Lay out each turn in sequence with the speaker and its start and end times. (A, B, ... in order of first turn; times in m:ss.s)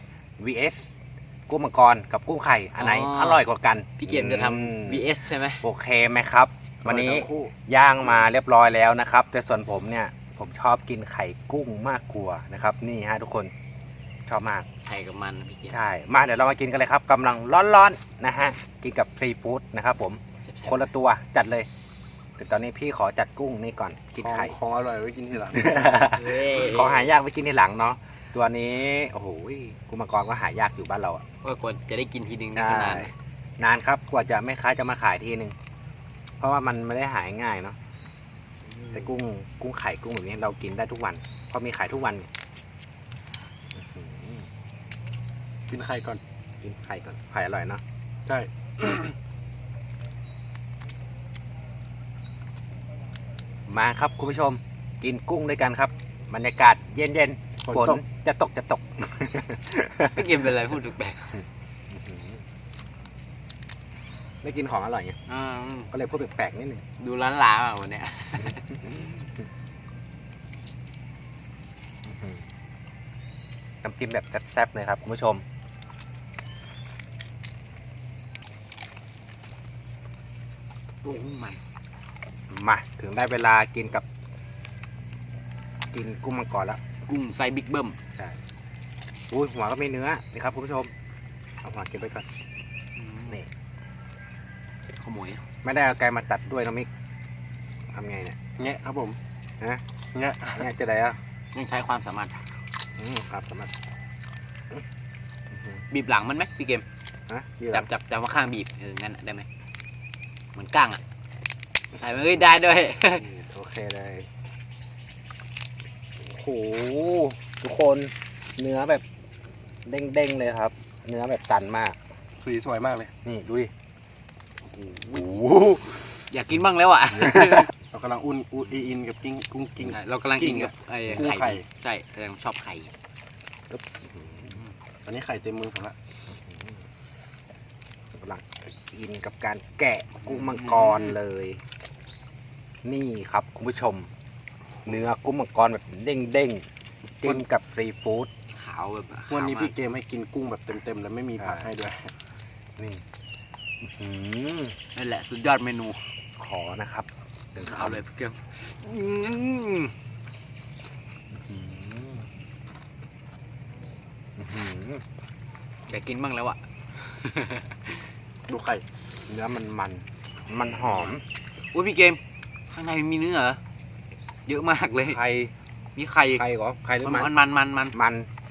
0:00.4-0:00.9 A
0:01.5-0:05.1 A
0:02.8-0:03.5 B
0:04.0-0:05.6 B
0:05.6-0:13.5 A
0:06.8-0:07.6 C
0:14.3-0:14.7 A
0:14.8-0:15.8 B
0:15.7-0:21.7 A
0:20.4-0:20.9 B
0:22.4-0:24.6 A
0:24.2-0:25.9 C
0:25.5-0:31.2 A
0:26.0-0:27.1 B
0:31.4-0:33.1 B
0:32.6-0:35.6 A
0:36.4-0:37.8 A
0:38.9-0:42.3 A
0:43.8-0:44.5 A
0:45.7-0:46.2 C
0:46.6-0:47.8 A
0:48.3-0:49.2 C
0:53.7-1:00.3 A
0:57.7-0:58.0 C
1:00.1-1:01.4 B
1:01.9-1:02.4 A
1:04.4-1:05.2 A
1:05.3-1:05.9 B
1:05.9-1:06.8 A
1:07.0-1:08.9 B
1:08.9-1:09.2 A
1:12.1-1:12.4 A
1:13.8-1:15.4 A
1:21.0-1:21.6 B
1:22.5-1:24.0 A
1:25.9-1:26.8 A
1:27.1-1:28.0 B
1:29.3-1:30.9 A
1:31.6-1:32.3 A
1:33.0-1:33.4 B
1:35.0-1:35.4 B
1:35.6-1:36.9 A
1:37.9-1:38.4 A
1:38.6-1:39.2 C
1:40.1-1:40.7 C
1:40.5-1:41.2 A
1:41.5-1:42.5 B
1:43.0-1:43.7 A
1:45.5-1:45.8 A
1:45.9-1:46.8 B
1:47.3-1:47.9 A
1:47.7-1:49.5 B
1:50.6-1:51.0 B
1:52.0-1:53.3 B
1:53.1-1:54.3 A
1:56.2-1:59.0 A
1:59.9-2:02.0 A
2:02.4-2:03.1 C
2:03.2-2:03.7 A
2:04.7-2:07.7 B
2:05.1-2:06.0 A
2:07.2-2:07.6 A
2:07.9-2:11.7 C
2:09.8-2:12.9 B
2:13.7-2:14.5 A
2:15.0-2:16.0 C
2:18.2-2:21.6 A
2:20.2-2:21.2 B
2:22.8-2:24.1 A
2:24.8-2:26.6 A
2:27.2-2:28.3 A
2:28.5-2:29.7 B
2:29.3-2:32.1 C
2:31.4-2:31.7 A
2:32.8-2:33.0 A
2:33.8-2:34.8 A
2:34.9-2:36.1 B
2:36.4-2:38.0 A
2:37.6-2:40.0 B
2:41.3-2:42.3 A
2:44.4-2:45.0 A
2:45.9-2:48.0 B
2:48.5-2:48.8 C
2:49.3-2:51.2 A
2:50.9-2:51.2 B
2:51.7-2:52.2 B
2:52.7-2:53.6 B
2:54.5-2:55.2 B
2:55.0-2:55.5 A
2:56.0-2:56.4 B
2:56.4-2:57.3 A
2:57.0-2:58.0 B
2:57.9-2:58.3 A